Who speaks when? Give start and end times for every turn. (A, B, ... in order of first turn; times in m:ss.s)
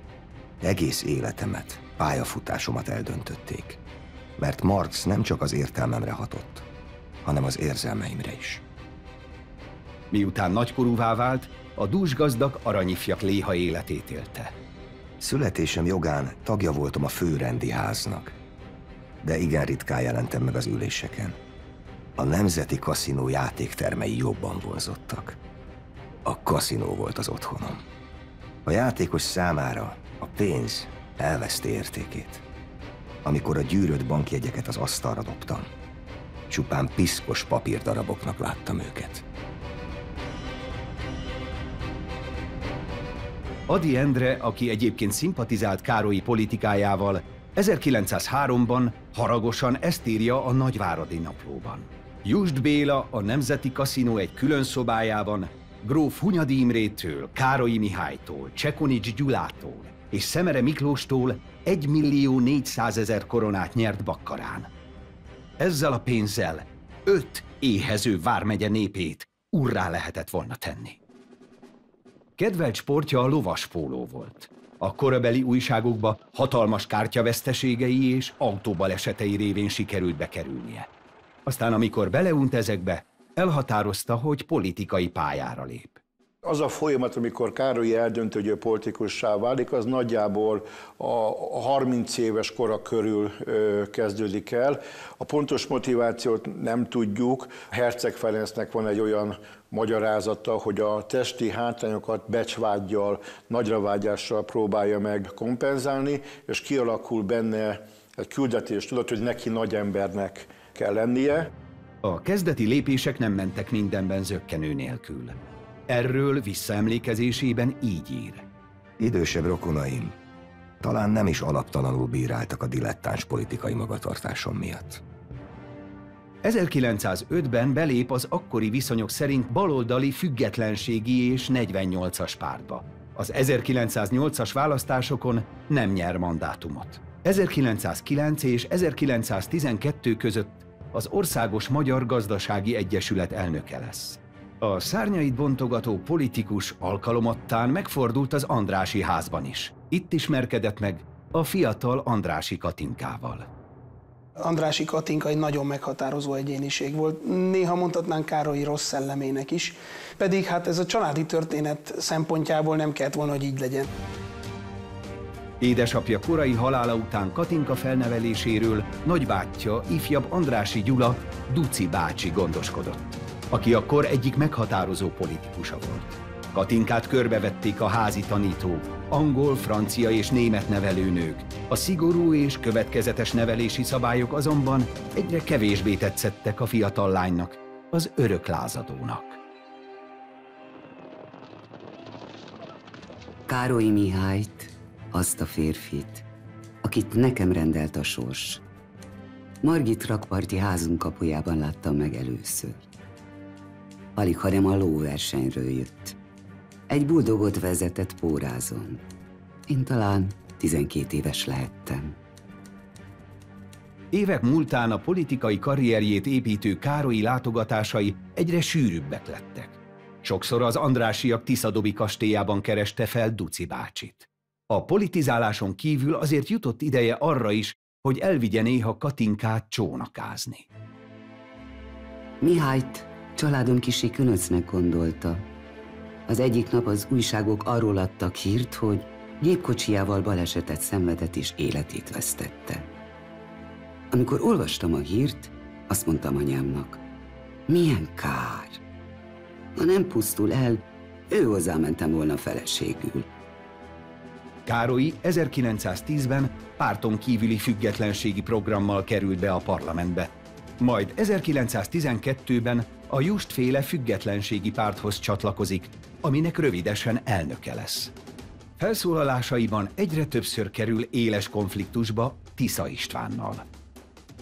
0:00.6-0:03.8 A
0:04.4-0:06.6 A
0:07.2-0:08.6 A
0:10.1-0:14.5 B
0:15.2-0:18.3 A
0:19.2-0:21.4 A
0:22.2-0:25.4 A
0:26.2-0:27.8 A
0:28.6-0:32.4 A
0:33.2-0:35.7 A
0:36.5-0:39.2 A
0:43.7-1:04.7 B
1:05.6-1:11.0 B
1:12.4-1:20.9 B
1:21.4-1:26.0 B
1:26.4-1:51.5 C
1:52.0-1:55.4 B
1:55.9-1:58.4 B
1:59.0-2:00.1 A
2:00.8-2:05.0 A
2:06.4-2:33.5 B
2:34.4-2:43.9 D
2:45.6-3:09.4 B
3:13.5-3:16.2 E
3:16.8-3:18.6 E
3:19.6-3:22.8 E
3:24.2-3:26.2 E
3:26.9-3:29.0 E
3:29.7-3:32.2 E
3:34.1-3:50.6 B
3:52.4-3:55.4 E
3:56.3-4:02.9 E
4:04.1-4:07.0 E
4:07.7-4:08.8 E
4:09.8-4:13.3 E
4:14.6-4:28.1 B
4:28.8-4:33.6 B